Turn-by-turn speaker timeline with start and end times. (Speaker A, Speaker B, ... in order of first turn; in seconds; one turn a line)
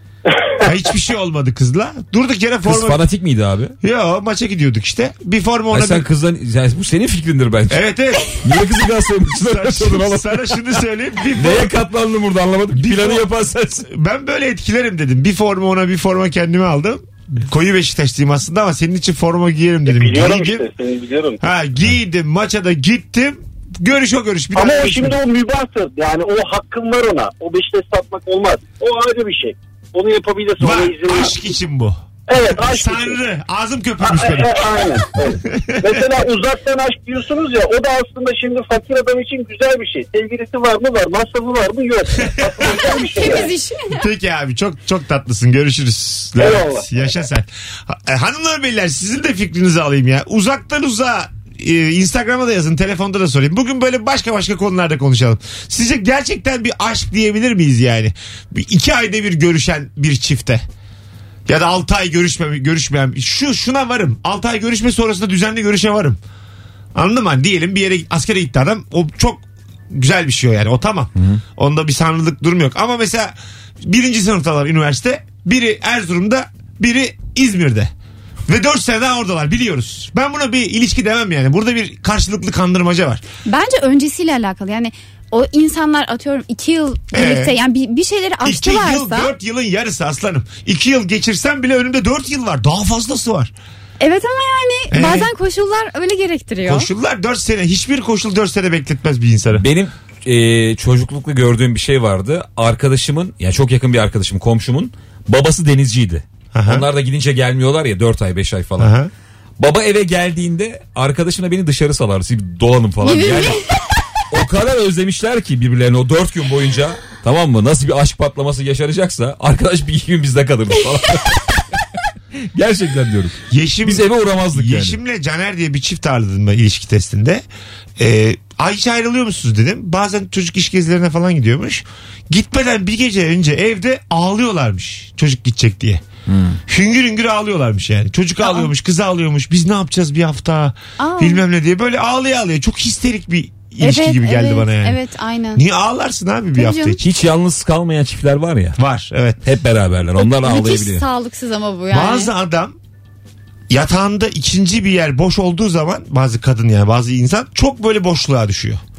Speaker A: 0.6-3.0
Speaker B: 2.6-3.7
Speaker A: 3.8-6.1
Speaker B: 5.7-10.4
Speaker A: 7.7-8.4
Speaker A: 9.3-11.7
Speaker B: 11.3-13.9
Speaker A: 12.7-13.2
Speaker A: 13.8-20.6
Speaker C: 19.8-21.4
Speaker A: 21.4-25.1
Speaker C: 24.5-31.4
Speaker A: 30.6-32.0
Speaker C: 32.3-33.2
Speaker A: 32.6-34.6
Speaker C: 34.0-43.5
Speaker A: 35.5-35.8
Speaker D: 42.8-44.0
Speaker A: 43.9-60.6
Speaker C: 46.4-46.9
Speaker A: 61.5-66.2
Speaker A: 66.9-77.9
Speaker A: 78.5-83.2
Speaker D: 83.5-89.3
Speaker A: 87.1-87.5
Speaker A: 88.4-93.5
Speaker D: 94.0-96.9
Speaker A: 94.9-95.3
Speaker A: 96.6-99.7
Speaker B: 99.5-108.9
Speaker A: 106.5-106.8
Speaker A: 108.8-109.1
Speaker B: 109.6-113.6
Speaker D: 113.0-113.7
Speaker B: 114.3-121.6
Speaker B: 122.5-125.0
Speaker A: 123.5-127.4
Speaker A: 128.0-136.0
Speaker B: 136.3-136.6
Speaker A: 136.7-145.0
Speaker D: 141.0-141.4
Speaker D: 143.8-145.6
Speaker A: 145.5-147.0
Speaker D: 146.5-147.0
Speaker B: 147.0-148.8
Speaker A: 148.8-149.4
Speaker B: 149.4-151.0
Speaker D: 150.2-152.3
Speaker A: 151.9-152.8
Speaker A: 153.7-158.8